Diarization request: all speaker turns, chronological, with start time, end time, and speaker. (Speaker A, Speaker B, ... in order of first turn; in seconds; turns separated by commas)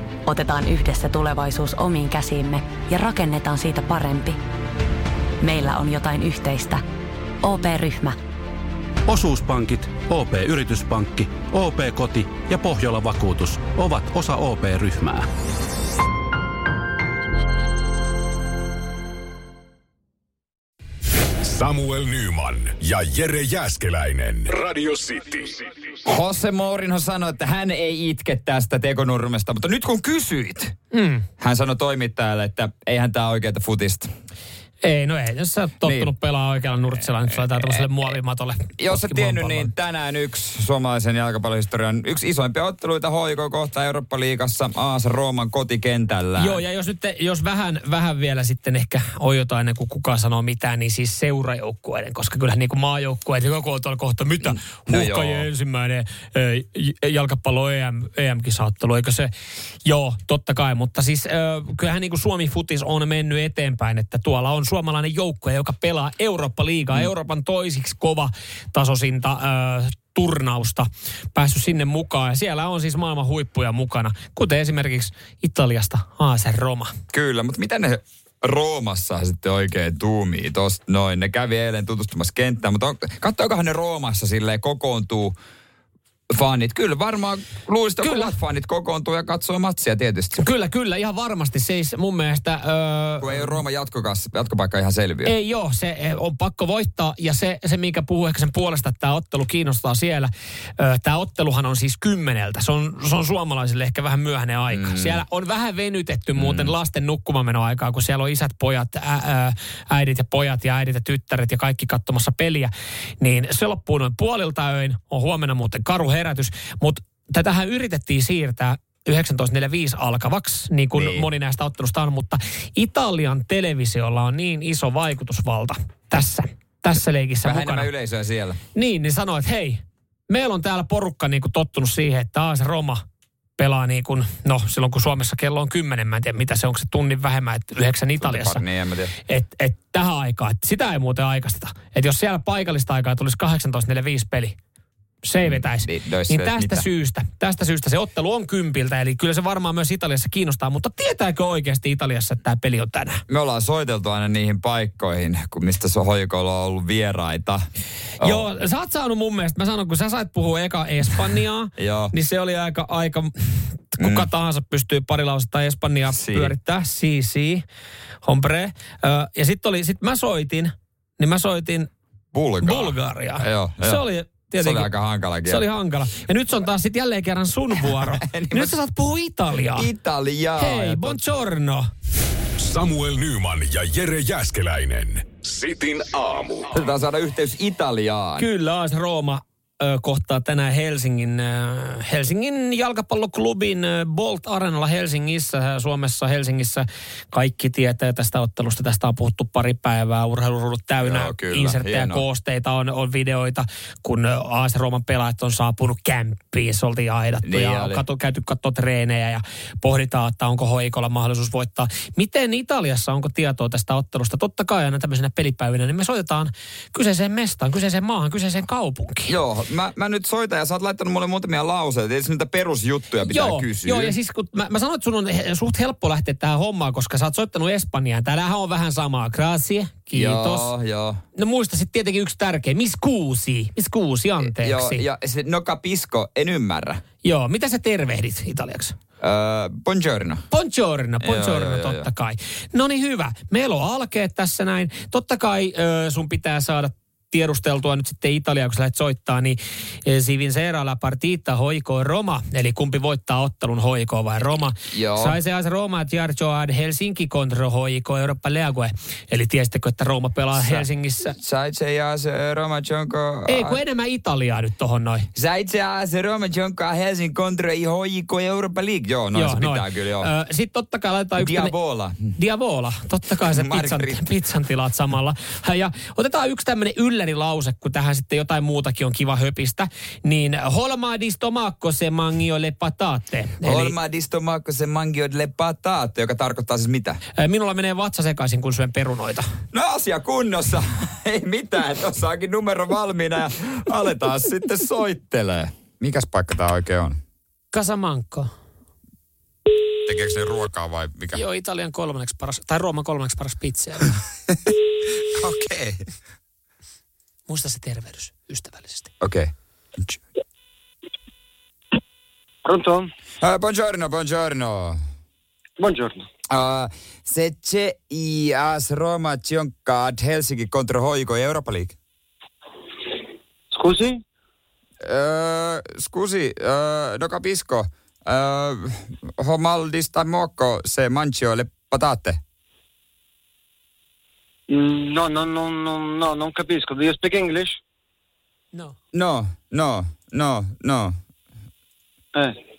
Speaker A: 0.2-4.4, Speaker A: 5.4-6.8, Speaker A: 7.4-8.2, Speaker B: 10.2-10.9, Speaker B: 11.4-15.0, Speaker C: 21.4-25.6, Speaker D: 26.1-30.7, Speaker E: 30.9-31.2, Speaker D: 31.4-34.1, Speaker E: 34.8-39.7, Speaker D: 35.8-36.1, Speaker D: 38.8-46.6, Speaker E: 46.4-59.3, Speaker D: 54.7-55.5, Speaker E: 59.8-76.9, Speaker D: 77.1-85.3, Speaker D: 86.3-90.4, Speaker E: 88.0-88.3, Speaker E: 90.4-93.6, Speaker D: 93.2-95.3, Speaker E: 95.2-127.9, Speaker D: 104.7-105.2, Speaker D: 106.3-106.7, Speaker D: 120.9-121.3, Speaker D: 127.4-128.6, Speaker E: 128.7-133.0, Speaker E: 133.6-138.6, Speaker D: 138.2-139.1, Speaker E: 139.2-144.6, Speaker E: 145.2-153.2, Speaker D: 145.4-146.8, Speaker D: 153.3-157.6, Speaker D: 158.2-158.4, Speaker E: 158.2-167.6, Speaker D: 161.8-162.1, Speaker D: 164.0-164.3, Speaker D: 166.1-166.5, Speaker E: 168.2-171.9, Speaker D: 172.3-174.0, Speaker E: 172.6-174.9, Speaker D: 174.6-175.6, Speaker E: 175.4-179.9, Speaker D: 178.0-178.8, Speaker D: 179.7-181.2, Speaker E: 180.6-181.8, Speaker C: 182.6-186.6, Speaker D: 186.7-188.4, Speaker E: 188.4-219.3, Speaker D: 201.0-202.2, Speaker D: 207.4-208.0, Speaker D: 219.3-224.1, Speaker E: 223.2-230.7, Speaker D: 230.1-231.2, Speaker E: 231.3-235.0, Speaker D: 234.4-237.0, Speaker E: 237.2-239.0, Speaker D: 239.2-240.4, Speaker E: 240.5-261.3, Speaker D: 241.2-242.1, Speaker D: 254.9-255.4, Speaker D: 260.5-260.9, Speaker D: 261.4-263.8, Speaker E: 263.5-265.3, Speaker D: 265.3-270.3, Speaker E: 269.3-271.7, Speaker D: 271.4-272.3, Speaker E: 272.4-283.9, Speaker D: 273.5-274.2, Speaker D: 283.6-287.2, Speaker E: 287.4-289.4, Speaker D: 289.7-297.2, Speaker E: 297.7-298.5, Speaker D: 300.1-301.4, Speaker E: 301.3-304.1, Speaker D: 305.3-306.0, Speaker E: 307.5-309.1, Speaker D: 309.2-310.2, Speaker F: 312.6-313.1, Speaker D: 313.4-315.0, Speaker F: 315.8-316.2, Speaker D: 316.5-321.9, Speaker F: 323.7-324.2, Speaker D: 325.0-332.4, Speaker F: 334.7-337.8, Speaker D: 339.1-341.1